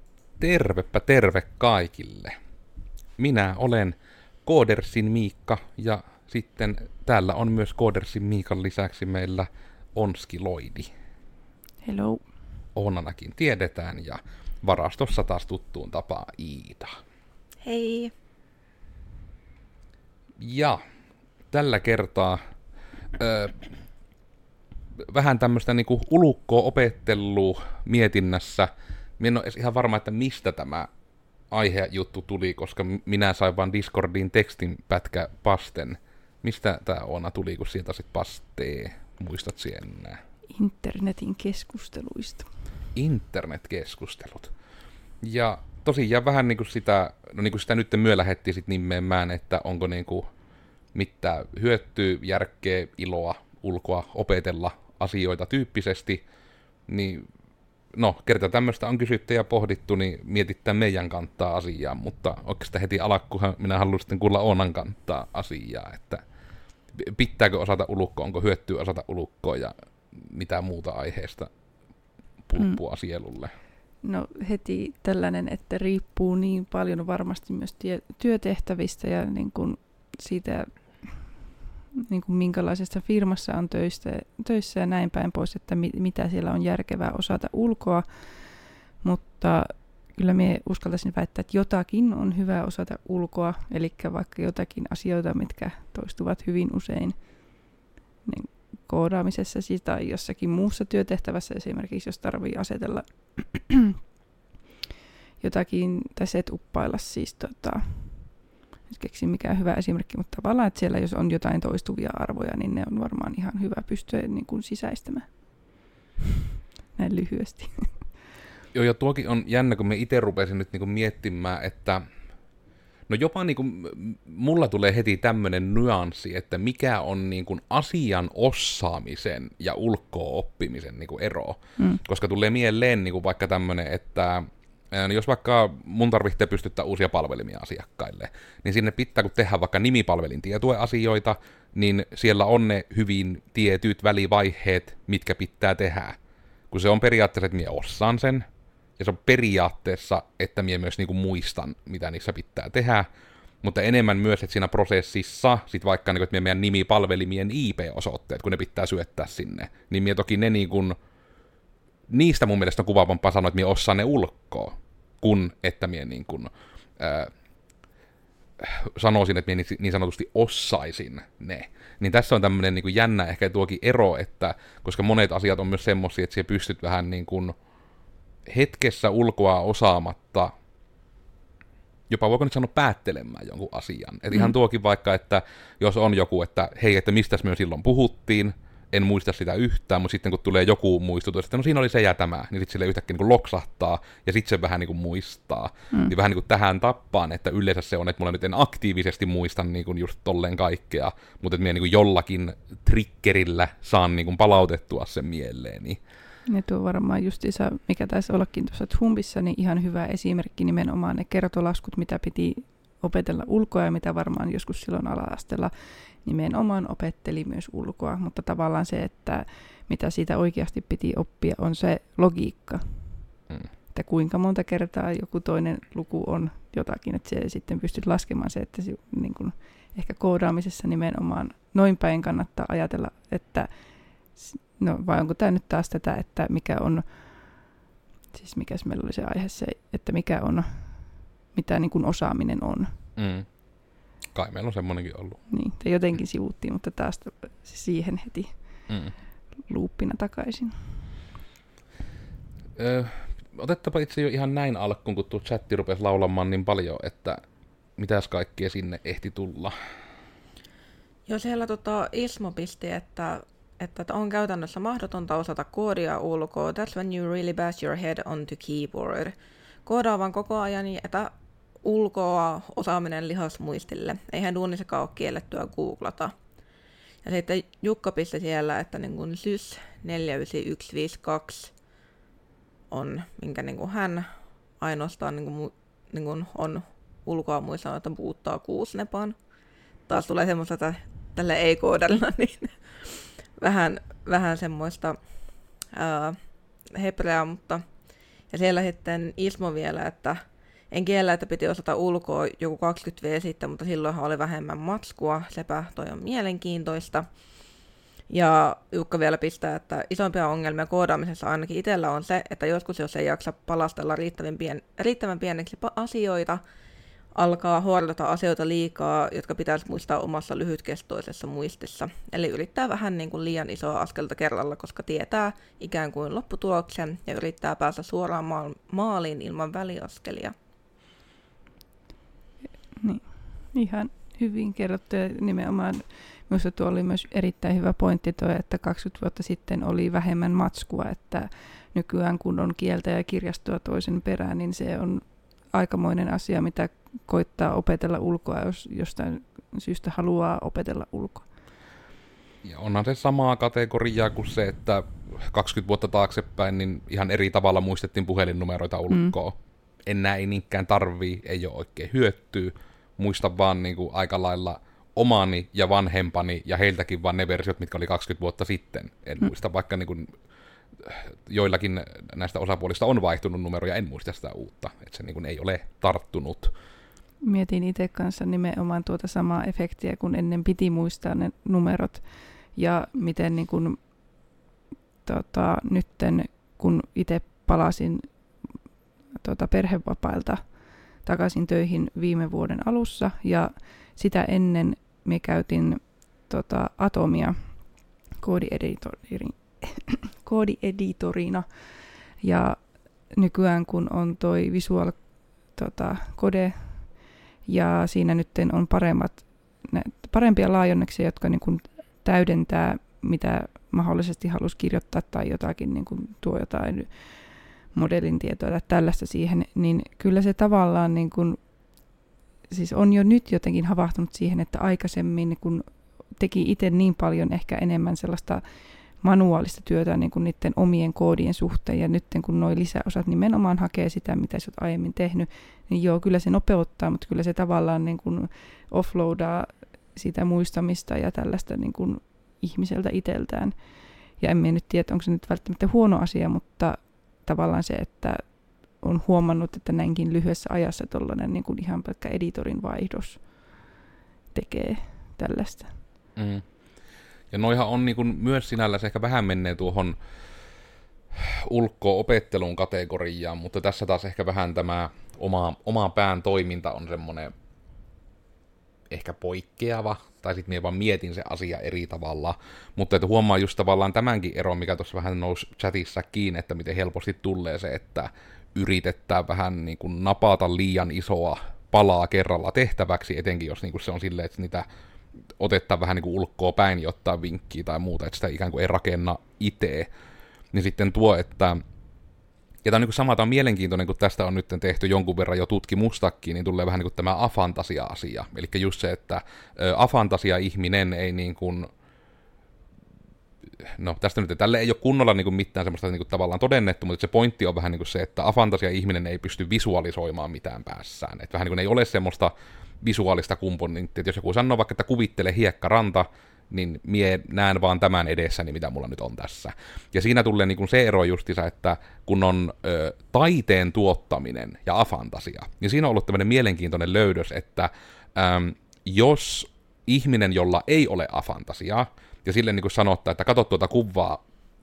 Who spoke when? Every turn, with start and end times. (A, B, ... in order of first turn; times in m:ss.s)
0:00.4-0:02.4 A
0:03.2-0:10.9 A
0:11.8-0:12.2 B
0:12.8-0:17.0 A
0:17.6-0:18.1 C
0:20.4-0:20.8 A
0:21.5-0:22.4 A
0:23.2-0:23.7 A
0:25.0-0:30.9 A
0:31.5-0:40.2 A
0:40.5-0:42.5 B
0:43.0-0:44.5 A
0:45.2-0:50.3 A
0:50.9-0:56.2 A
0:56.9-0:57.3 A
0:57.9-1:06.2 A
1:07.0-1:11.5 A
1:12.4-1:13.5 A
1:14.0-1:21.4 B
1:22.0-1:44.0 B
1:45.4-1:55.3 B
1:57.0-1:58.2 B
1:58.7-2:02.0 A
2:03.1-2:26.2 A
2:26.7-2:28.5 A
2:29.0-2:33.1 A
2:33.6-2:41.0 A
2:42.1-2:47.3 A
2:48.6-2:57.5 A
2:58.5-3:00.5 A
3:02.1-3:26.0 A
3:26.5-3:43.4 B
3:43.9-3:53.8 B
3:54.3-3:57.8 B
3:58.3-4:02.9 B
4:03.2-4:03.5 A
4:04.3-4:05.4 A
4:05.5-4:08.9 B
4:08.9-4:09.1 A
4:09.6-4:10.8 B
4:12.8-4:17.4 A
4:18.0-4:19.8 A
4:21.3-4:36.3 C
4:37.2-4:41.7 C
4:42.9-4:44.3 C
4:44.8-4:49.4 C
4:50.1-4:55.2 C
4:55.9-4:56.4 C
4:56.9-4:57.8 C
4:58.5-5:07.3 C
5:08.3-5:16.6 C
5:17.4-5:30.5 C
5:33.0-5:51.5 B
5:52.6-5:59.6 A
5:59.1-5:59.4 B
6:00.1-6:10.3 A
6:11.0-6:16.7 A
6:17.4-6:24.0 B
6:25.2-6:28.3 B
6:29.3-6:30.7 B
6:31.2-6:41.7 B
6:42.4-7:01.6 B
7:02.7-7:08.6 B
7:09.2-7:33.8 B
7:34.5-7:36.0 B
7:36.4-7:36.6 A
7:37.5-7:40.2 A
7:41.4-7:47.5 A
7:49.1-8:04.8 A
8:05.6-8:10.1 A
8:10.7-8:11.8 A
8:12.8-8:21.9 A
8:23.8-8:54.4 A